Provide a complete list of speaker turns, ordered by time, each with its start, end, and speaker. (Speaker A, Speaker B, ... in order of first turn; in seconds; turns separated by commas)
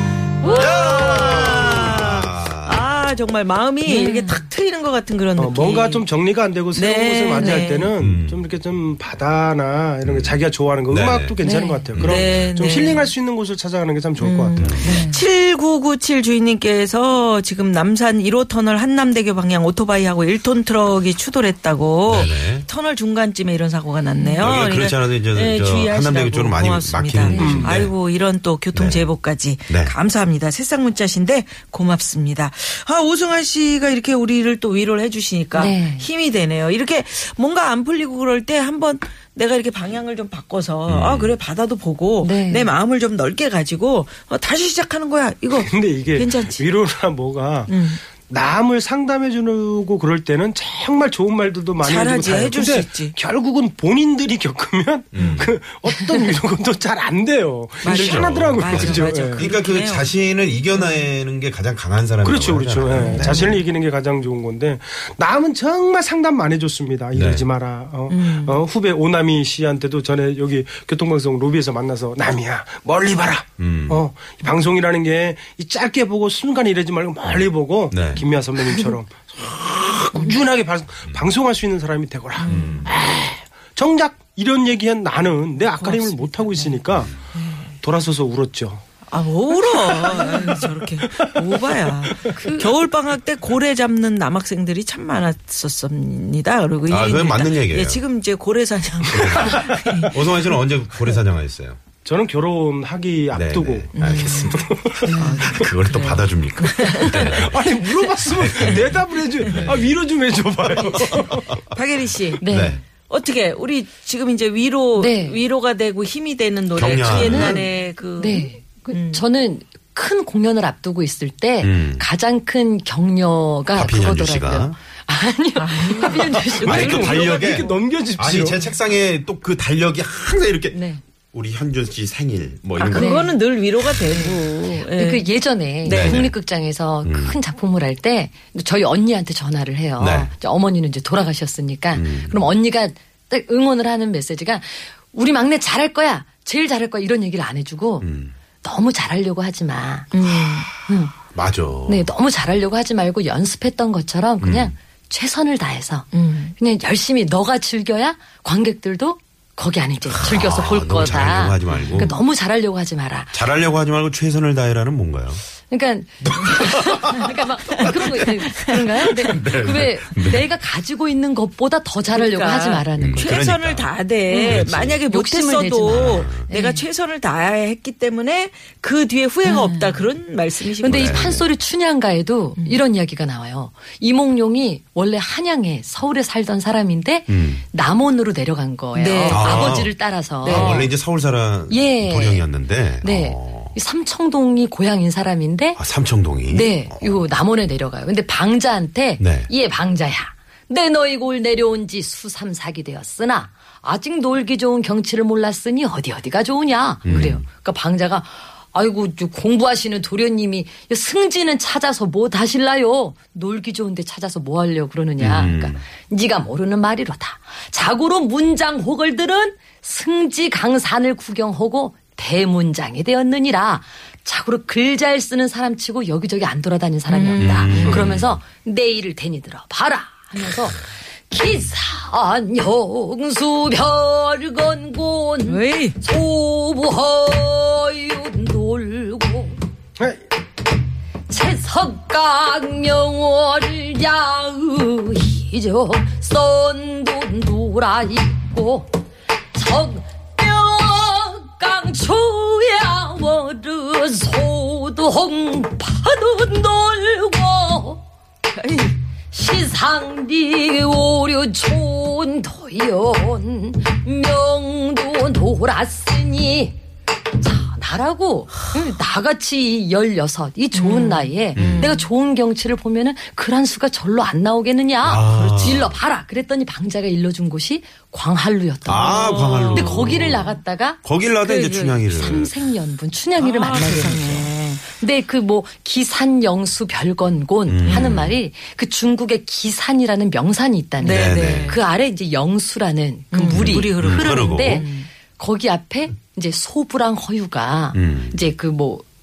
Speaker A: 0.4-0.8, Speaker B: 0.4-6.1, Speaker C: 0.5-2.8, Speaker A: 3.9-4.4, Speaker D: 5.4-14.7, Speaker B: 6.7-7.9, Speaker A: 7.4-7.7, Speaker C: 8.0-8.4, Speaker C: 10.0-11.4, Speaker A: 11.4-11.9, Speaker C: 11.9-12.3, Speaker B: 12.0-13.1, Speaker B: 14.2-46.7, Speaker C: 14.6-15.0, Speaker A: 14.8-15.2, Speaker C: 22.1-22.7, Speaker C: 24.4-27.9, Speaker A: 27.3-27.6, Speaker D: 27.3-27.9, Speaker C: 28.7-29.1, Speaker C: 29.7-29.9, Speaker A: 35.5-36.0, Speaker C: 40.9-41.3, Speaker A: 42.2-42.7, Speaker D: 45.5-59.5, Speaker B: 47.7-48.0, Speaker B: 51.8-53.2, Speaker C: 55.1-55.5, Speaker B: 57.8-60.1, Speaker C: 57.8-63.6, Speaker B: 60.7-61.0, Speaker D: 62.2-87.1, Speaker B: 63.0-63.6, Speaker C: 67.1-67.4, Speaker B: 68.1-68.6, Speaker C: 73.6-74.0, Speaker C: 77.9-78.2, Speaker B: 82.4-82.9, Speaker C: 82.5-82.9, Speaker B: 85.7-87.7, Speaker D: 87.8-88.8, Speaker B: 89.1-100.2, Speaker D: 89.9-90.5, Speaker A: 92.3-92.7, Speaker C: 96.8-98.0, Speaker C: 99.1-101.8, Speaker D: 102.0-105.2, Speaker C: 103.3-104.7, Speaker B: 104.0-107.4, Speaker A: 105.0-105.5, Speaker C: 105.3-107.6, Speaker D: 106.9-111.5, Speaker C: 108.3-109.9, Speaker B: 111.7-112.4, Speaker A: 112.4-112.8, Speaker C: 112.5-112.8, Speaker B: 113.0-119.2, Speaker A: 115.0-115.4, Speaker C: 116.7-117.6, Speaker A: 117.1-127.2, Speaker C: 121.6-122.0, Speaker C: 123.7-124.8, Speaker B: 125.5-127.7, Speaker C: 126.5-133.2, Speaker D: 126.6-128.7, Speaker B: 130.7-131.0, Speaker B: 132.8-136.3, Speaker A: 132.9-133.4, Speaker A: 134.1-148.1, Speaker C: 135.9-136.4, Speaker C: 137.0-137.4, Speaker C: 140.0-140.3, Speaker C: 141.9-142.4, Speaker C: 148.0-148.3, Speaker A: 148.6-151.1, Speaker B: 150.1-150.7, Speaker C: 151.3-152.1, Speaker A: 151.8-163.4, Speaker C: 154.4-154.7, Speaker B: 156.1-156.5, Speaker C: 160.1-162.1, Speaker B: 161.7-162.2, Speaker C: 163.3-165.4, Speaker A: 165.7-173.4, Speaker C: 166.3-168.2, Speaker B: 168.2-169.1, Speaker C: 169.0-170.5, Speaker B: 172.1-181.2, Speaker C: 173.0-175.0, Speaker A: 174.3-176.8, Speaker C: 175.9-176.4, Speaker A: 179.4-180.0, Speaker A: 180.8-190.9, Speaker C: 180.8-181.4, Speaker C: 187.3-187.6, Speaker B: 188.9-189.8, Speaker C: 189.3-193.8, Speaker B: 190.4-190.9, Speaker A: 191.7-192.5, Speaker A: 193.0-195.8, Speaker C: 195.8-197.2, Speaker A: 196.5-239.6, Speaker C: 199.2-199.5, Speaker C: 207.0-207.4, Speaker C: 215.2-215.8, Speaker B: 227.1-228.1, Speaker C: 227.4-228.4, Speaker B: 235.4-236.0, Speaker D: 240.0-240.2, Speaker A: 241.3-248.9, Speaker A: 249.5-258.0, Speaker B: 258.5-258.9, Speaker A: 259.3-266.8, Speaker A: 267.4-281.0, Speaker B: 270.7-272.1, Speaker C: 271.5-271.9, Speaker C: 275.0-276.0, Speaker B: 275.1-275.9, Speaker C: 278.9-280.5, Speaker B: 279.1-280.5, Speaker C: 281.0-282.5, Speaker B: 281.4-282.4, Speaker A: 282.1-299.0, Speaker B: 283.4-284.9, Speaker C: 287.7-288.4, Speaker B: 287.9-288.3, Speaker B: 291.0-291.8, Speaker C: 291.0-291.8, Speaker B: 293.3-295.1, Speaker C: 293.5-294.8, Speaker C: 297.9-298.5